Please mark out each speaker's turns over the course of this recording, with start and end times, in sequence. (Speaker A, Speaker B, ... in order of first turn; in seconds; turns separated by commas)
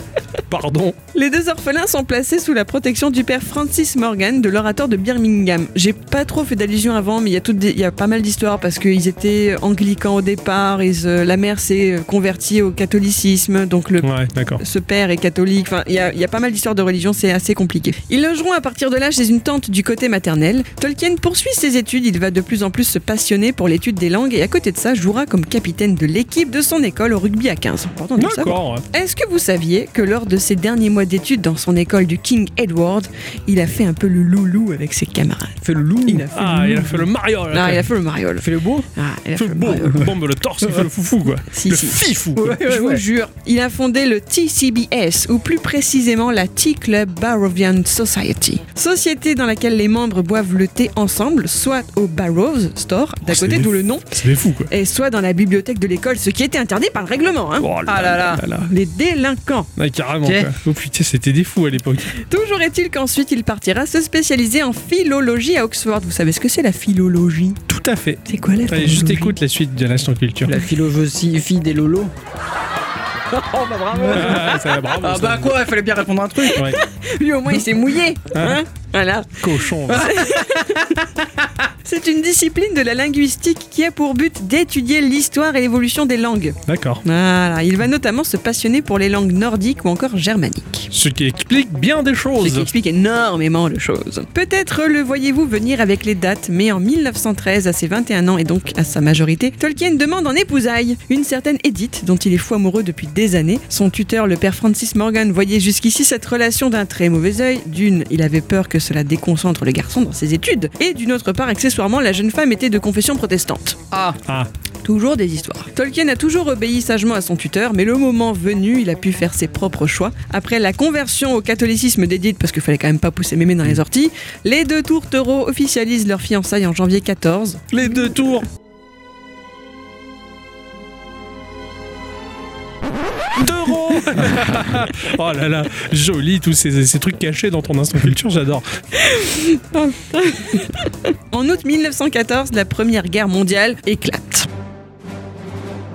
Speaker A: 0.5-0.9, Speaker B: 1.1-40.1, Speaker A: 14.0-14.6, Speaker A: 28.1-28.8, Speaker C: 35.6-36.3, Speaker A: 36.3-37.9, Speaker C: 38.4-38.9, Speaker A: 39.3-42.6, Speaker B: 41.5-54.1, Speaker C: 42.4-43.0, Speaker A: 53.2-54.7, Speaker B: 54.7-57.7, Speaker A: 57.6-58.7, Speaker C: 57.9-58.4, Speaker B: 58.5-59.7, Speaker A: 59.8-62.1, Speaker C: 60.2-60.5, Speaker B: 62.1-67.6, Speaker A: 67.7-70.6, Speaker B: 68.3-69.4, Speaker C: 70.4-72.1, Speaker B: 73.3-74.6, Speaker A: 74.0-75.6, Speaker C: 75.0-76.7, Speaker B: 76.4-81.0, Speaker A: 78.3-78.6, Speaker A: 79.4-80.1, Speaker C: 79.9-80.9, Speaker B: 81.8-90.9, Speaker A: 86.7-87.0, Speaker A: 90.9-92.7, Speaker B: 92.4-113.8, Speaker C: 113.9-114.2, Speaker B: 114.8-127.7, Speaker A: 127.7-128.4, Speaker A: 133.4-138.7, Speaker B: 139.0-144.5